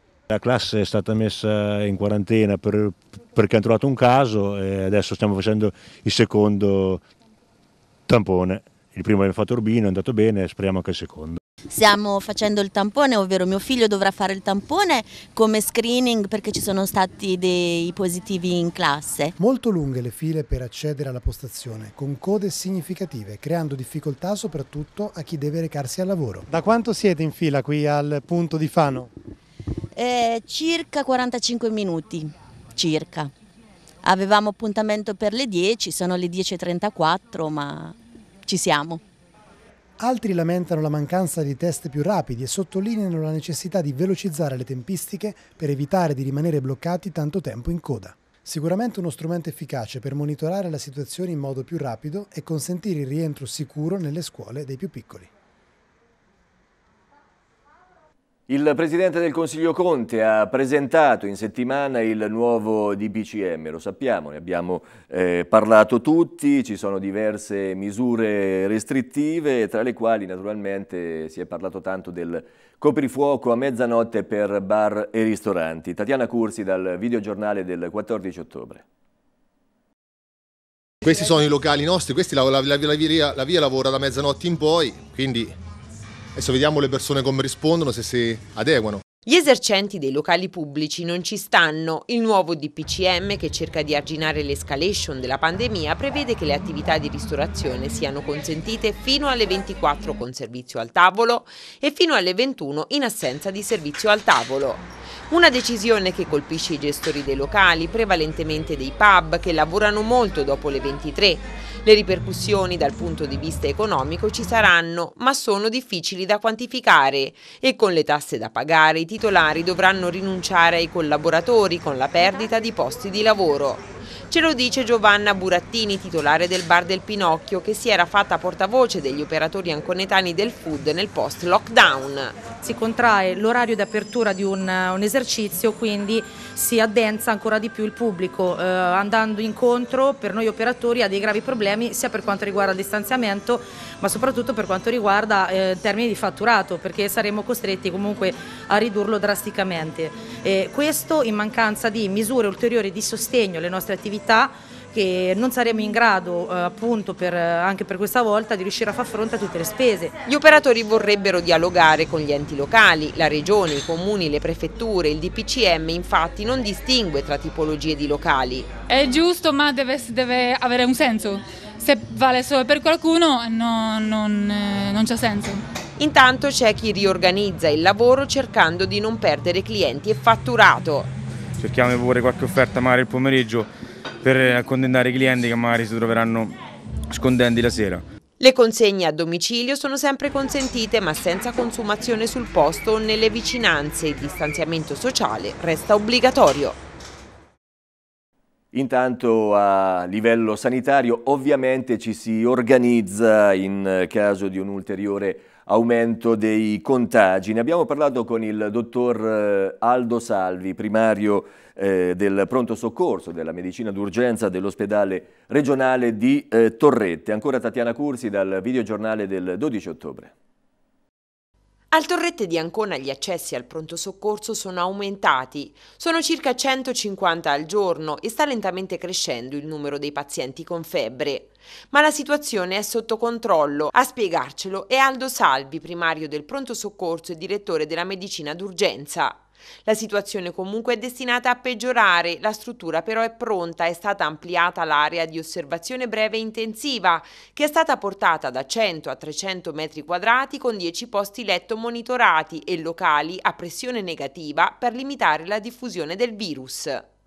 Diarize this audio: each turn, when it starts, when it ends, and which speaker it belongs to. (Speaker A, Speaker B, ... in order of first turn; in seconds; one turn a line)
Speaker A: 0.3-7.0
Speaker A: 8.1-11.4
Speaker B: 11.7-19.3
Speaker C: 19.4-29.1
Speaker B: 29.9-33.3
Speaker B: 34.0-38.0
Speaker B: 38.5-39.0
Speaker C: 40.0-55.3
Speaker D: 58.5-78.8
Speaker E: 81.0-85.5
Speaker E: 86.4-89.0
Speaker F: 89.3-132.4
Speaker G: 132.6-160.2
Speaker F: 160.3-168.7
Speaker H: 168.9-175.6
Speaker F: 176.0-181.1
Speaker I: 181.6-183.7
Speaker I: 184.2-186.6
Speaker I: 187.1-188.0
Speaker F: 188.4-196.8
Speaker D: 198.7-220.3
Speaker F: 221.9-257.0